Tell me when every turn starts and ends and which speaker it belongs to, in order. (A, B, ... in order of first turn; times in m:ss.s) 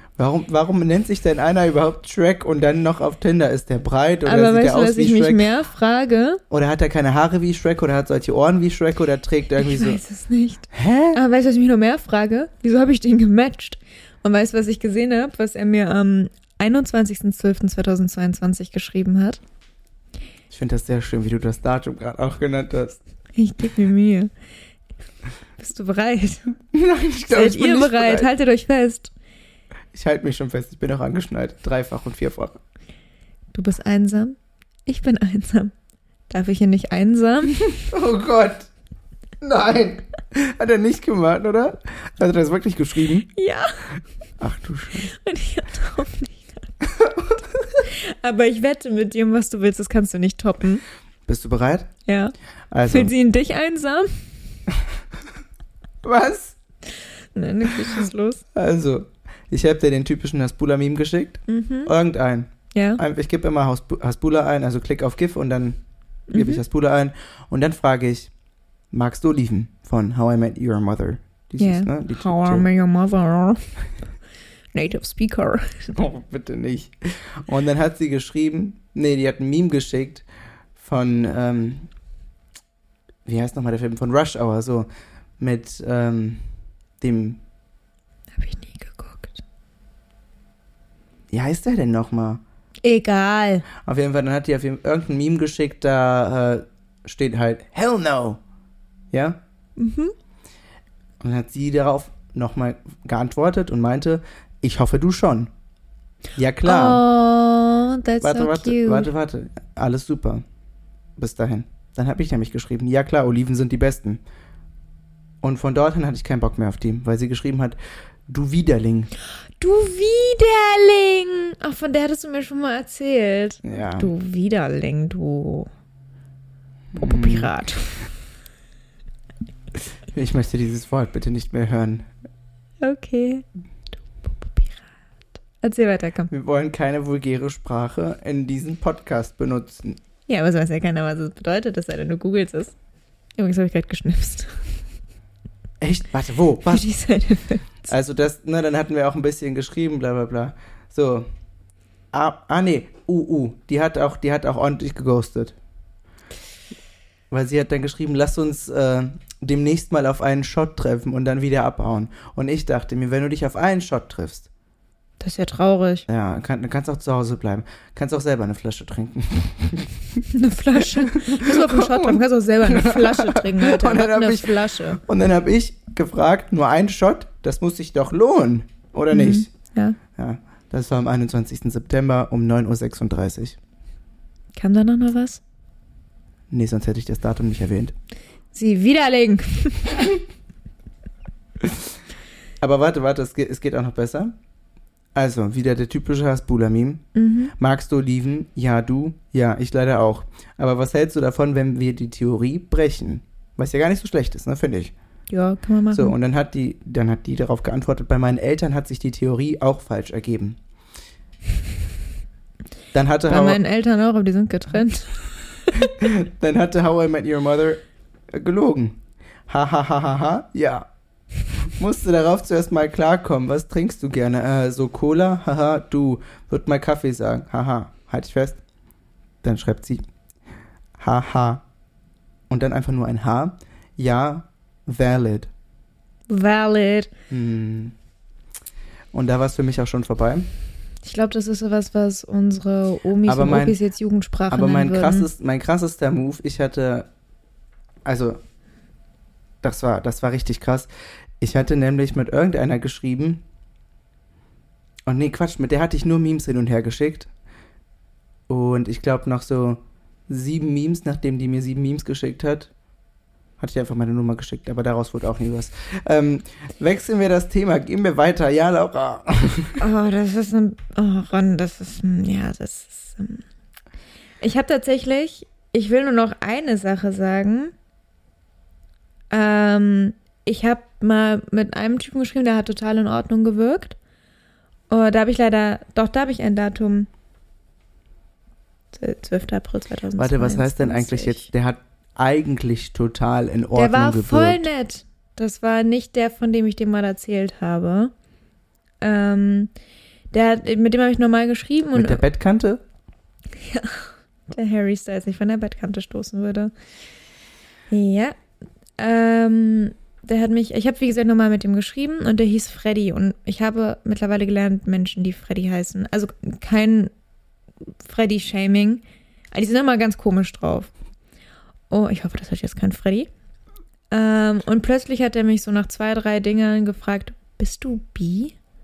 0:00.2-0:05.5 A
0:04.2-0:06.4 B
0:06.5-0:10.0 A
0:09.6-0:19.4 B
0:10.7-0:11.2 A
0:20.5-0:23.0 A
0:23.4-0:24.3 B
0:25.6-0:26.5 B
0:26.7-0:28.3 A
0:27.3-0:29.1 B
0:29.9-0:32.6 A
0:33.5-0:35.7 B
0:36.3-0:37.6 B
0:37.8-0:38.7 A
0:39.4-0:43.3 A
0:43.3-0:43.8 B
0:44.4-0:45.1 A
0:45.1-0:46.7 B
0:46.8-0:47.4 A
0:47.8-0:50.8 B
0:51.3-0:51.9 A
0:52.1-0:52.3 B
0:52.7-0:53.1 A
0:52.9-0:54.2 B
0:56.0-0:56.6 A
0:57.3-0:58.4 B
0:58.5-1:05.8 A
1:01.5-1:01.9 B
1:02.7-1:03.0 B
1:06.3-1:06.6 B
1:06.3-1:08.3 A
1:08.9-1:12.7 A
1:11.6-1:13.6 B
1:14.7-1:15.9 B
1:15.9-1:20.2 A
1:20.8-1:21.9 A
1:23.3-1:24.9 A
1:25.4-1:26.4 A
1:27.0-1:27.4 A
1:28.3-1:29.4 B
1:31.3-1:32.4 A
1:32.8-1:33.7 B
1:33.8-1:38.4 A
1:39.1-1:39.4 A
1:39.8-1:40.1 B
1:41.2-1:45.5 A
1:46.4-1:47.0 A
1:46.6-1:49.1 B
1:48.2-1:50.4 A
1:51.2-1:54.2 A
1:55.4-1:57.8 A
1:58.3-1:59.1 A
1:59.6-2:05.7 B
2:03.6-2:04.1 A
2:06.9-2:07.5 A
2:07.0-2:08.1 B
2:10.1-2:12.1 A
2:12.8-2:13.4 B
2:14.2-2:14.8 B
2:15.6-2:16.3 B
2:16.3-2:20.0 A
2:20.3-2:22.7 B
2:23.4-2:24.6 B
2:25.8-2:26.9 A
2:26.7-2:27.7 B
2:27.9-2:31.3 A
2:32.1-2:35.6 A
2:37.3-2:44.5 A
2:45.2-2:46.1 B
2:46.1-2:50.2 A
2:50.3-2:55.0 B
2:50.9-2:59.5 A
2:59.1-3:00.0 B
3:00.2-3:03.6 A
3:04.6-3:05.4 B
3:06.5-3:07.9 A
3:08.5-3:10.1 B
3:12.6-3:14.3 A
3:15.2-3:17.0 A
3:17.2-3:17.5 B
3:17.6-3:24.9 A
3:25.3-3:26.2 B
3:25.9-3:30.6 A
3:32.9-3:33.6 A
3:33.3-3:35.9 B
3:35.7-3:40.9 A
3:41.8-3:48.6 A
3:49.4-3:50.0 A
3:51.0-3:51.6 A
3:52.5-3:55.5 A
3:56.3-3:57.1 B
3:57.3-3:57.9 A
3:59.1-4:00.5 A
4:01.0-4:05.3 B
4:03.3-4:03.8 A
4:04.5-4:07.1 A
4:08.0-4:08.4 A
4:09.6-4:10.9 A
4:11.4-4:13.4 A
4:15.1-4:17.3 A
4:18.5-4:22.7 A
4:23.6-4:29.8 A
4:29.8-4:33.4 B
4:34.4-4:37.7 B
4:39.3-4:44.0 B
4:44.9-4:47.1 B
4:48.9-4:51.5 B
4:50.2-4:54.6 A
4:53.8-4:58.1 B
4:59.0-4:59.7 B
5:00.3-5:02.2 B
5:01.9-5:02.8 A
5:03.5-5:06.7 B
5:07.9-5:08.4 B
5:09.0-5:17.1 B
5:18.0-5:20.9 B
5:21.9-5:23.3 B
5:24.1-5:28.6 B